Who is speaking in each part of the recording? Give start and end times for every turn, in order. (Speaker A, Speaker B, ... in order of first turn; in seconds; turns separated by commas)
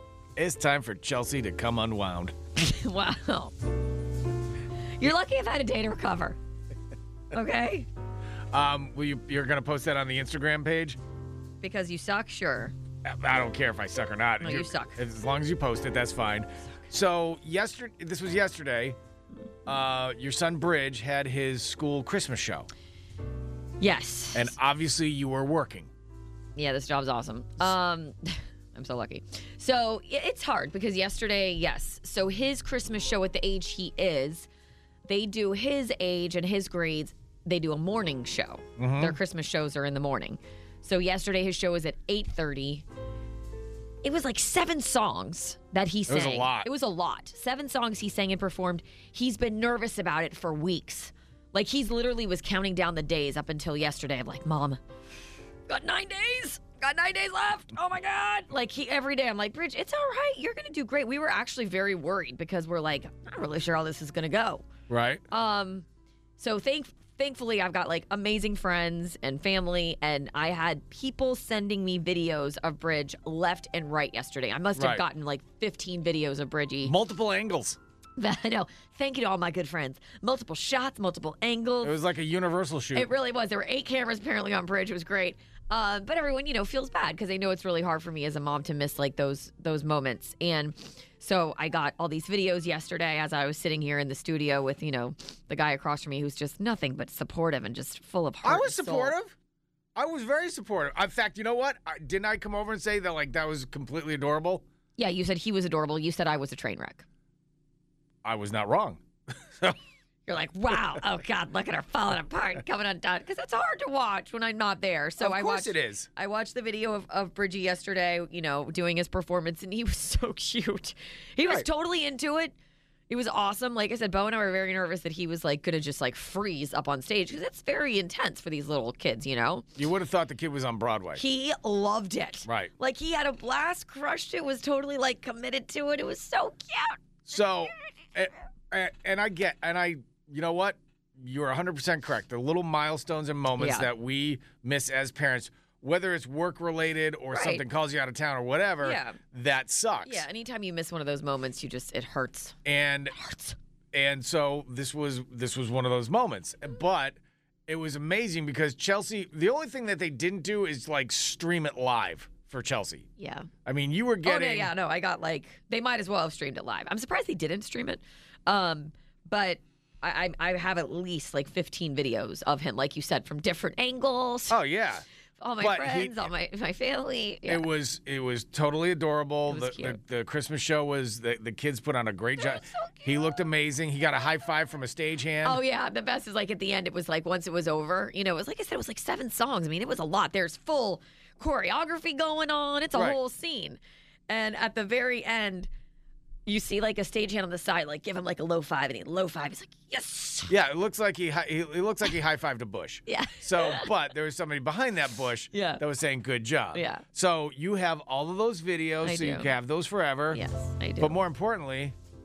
Speaker A: 0.3-2.3, Speaker B: 2.6-3.5, Speaker B: 5.0-6.4, Speaker B: 7.3-7.9, Speaker A: 8.5-11.0, Speaker B: 11.6-12.7, Speaker A: 13.0-19.0, Speaker B: 14.4-15.0, Speaker A: 19.6-22.7, Speaker B: 23.8-24.5, Speaker A: 24.3-25.9, Speaker B: 26.6-34.5, Speaker B: 35.0-42.8, Speaker A: 38.8-39.2, Speaker B: 44.0-54.8, Speaker A: 46.1-46.7, Speaker B: 55.7-64.7, Speaker A: 64.9-65.2, Speaker B: 65.3-65.8, Speaker B: 66.4-76.9, Speaker A: 74.8-75.0, Speaker A: 76.8-77.8, Speaker B: 78.2-82.0, Speaker A: 81.8-83.1, Speaker B: 82.9-99.1, Speaker A: 98.4-99.3, Speaker A: 100.0-104.6, Speaker B: 105.0-107.0, Speaker A: 108.2-109.8, Speaker B: 110.3-122.5, Speaker A: 115.2-116.1, Speaker B: 123.1-129.7, Speaker A: 129.8-131.2, Speaker B: 131.2-137.0, Speaker A: 132.4-132.7, Speaker A: 137.3-150.2, Speaker B: 143.6-143.9, Speaker B: 147.3-147.6, Speaker B: 148.8-149.2, Speaker B: 150.0-152.5, Speaker A: 152.6-153.1, Speaker B: 153.1-153.6, Speaker A: 153.9-163.1, Speaker B: 163.2-163.5, Speaker A: 163.6-164.7, Speaker B: 164.2-174.6, Speaker A: 174.5-175.0, Speaker B: 175.4-177.7, Speaker A: 175.6-176.2, Speaker A: 177.4-185.6, Speaker B: 179.5-180.0, Speaker B: 182.3-183.3, Speaker B: 185.4-195.7, Speaker B: 196.4-200.5, Speaker A: 200.5-210.4, Speaker B: 203.1-203.9, Speaker B: 205.5-205.8, Speaker B: 206.7-207.0, Speaker B: 209.0-209.5, Speaker B: 210.3-211.2, Speaker A: 211.0-211.9